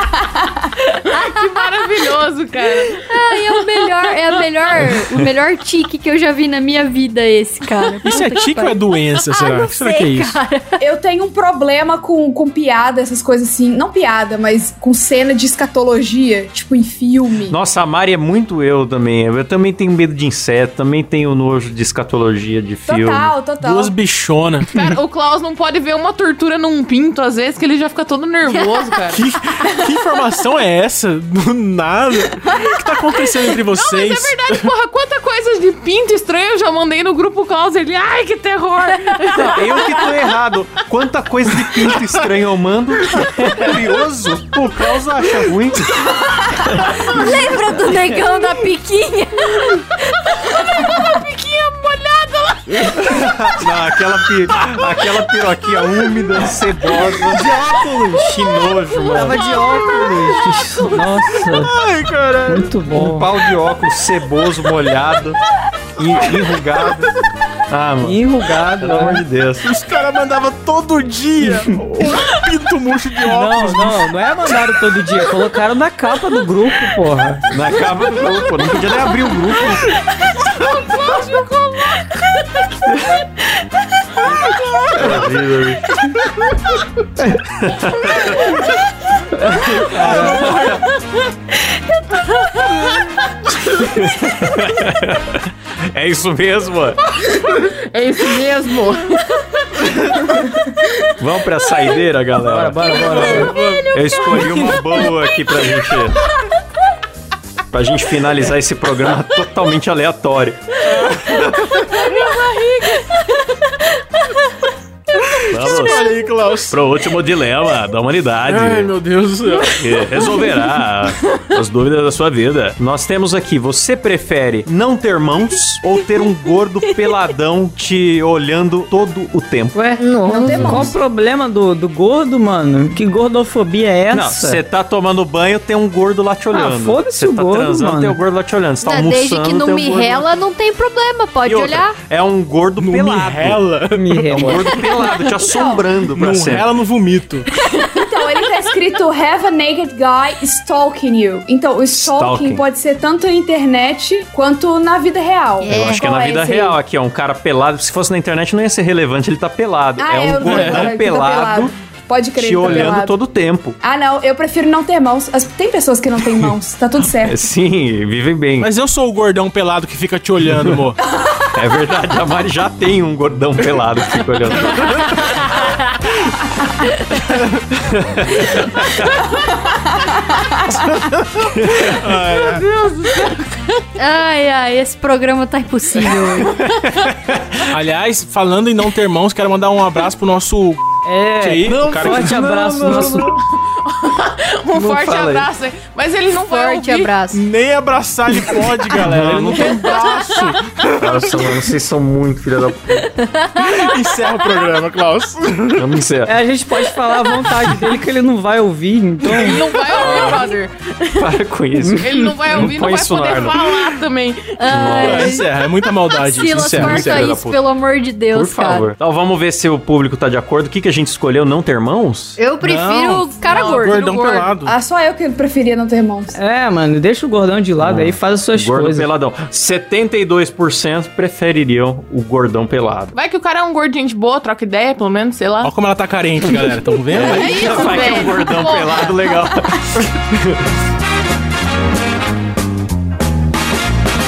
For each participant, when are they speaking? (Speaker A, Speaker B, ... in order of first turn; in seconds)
Speaker A: 0.8-2.1, 2.9-10.8, 28.4-29.0, 29.6-29.9, 39.1-39.8, 45.9-53.1, 59.4-60.4, 111.3-114.4, 115.5-116.3, 130.0-130.8, 138.8-141.9, 155.6-156.1, 174.9-176.1, 176.8-177.2, 184.0-186.8, 196.3-197.4, 203.0-203.9, 209.9-210.5, 214.6-218.9, 222.4-224.5, 237.9-238.3
Speaker B: 1.1-4.5, 24.7-29.2, 33.7-40.0, 80.6-82.0, 97.3-99.3, 183.0-183.4, 193.6-197.1, 199.8-200.5, 209.2-211.1, 212.0-214.9, 223.4-224.5, 233.1-235.7, 237.1-239.4
Speaker C: 4.8-5.3, 17.5-23.3, 39.3-45.9, 53.0-57.5, 58.1-59.5, 62.9-65.4, 66.0-67.1, 67.7-68.2, 68.8-69.8, 77.5-79.8, 82.9-83.2, 84.9-85.9, 87.2-88.6, 89.9-90.8, 93.7-97.0, 101.2-106.2, 107.7-111.8, 115.5-116.1, 116.7-118.9, 119.7-129.7, 134.1-140.3, 141.4-143.6, 144.3-146.7, 151.9-152.6, 155.7-161.7, 162.4-163.8, 167.2-168.7, 170.4-170.9, 171.5-175.6, 177.7-179.2, 181.1-182.3, 187.1-187.6, 191.8-193.4, 194.7-195.5, 199.0-199.8, 201.0-203.1, 205.8-206.3, 209.9-210.5, 211.1-213.9, 214.7-215.4, 216.7-217.6, 218.3-222.4, 227.8-233.1, 237.1-240.7
Speaker D: 8.0-10.4, 23.6-24.8, 29.1-34.7, 43.7-44.4, 57.4-57.9, 61.2-62.6, 69.6-74.6, 90.0-90.6, 102.9-104.5, 110.8-112.0, 115.2-116.8, 118.5-120.4, 142.8-144.8, 146.1-147.5, 160.5-160.9, 162.6-162.9, 168.6-171.0, 181.8-182.7, 187.7-190.8, 191.4-193.4, 197.3-201.7, 203.6-205.9, 214.9-217.3, 222.6-224.7, 235.6-238.0
Speaker E: 10.8-17.6, 22.9-23.9, 130.3-130.9, 145.4-145.8, 147.9-156.8, 160.0-163.2, 163.8-167.4, 171.1-171.6, 179.7-180.9, 224.6-226.3
Speaker F: 57.4-58.3, 59.0-61.7, 62.5-63.3, 68.0-69.2, 71.4-71.8, 73.3-77.4, 89.3-90.4, 102.4-103.5, 129.7-134.6, 136.5-138.2, 143.9-144.7, 191.0-193.3, 206.2-209.6, 211.8-212.3, 226.3-229.1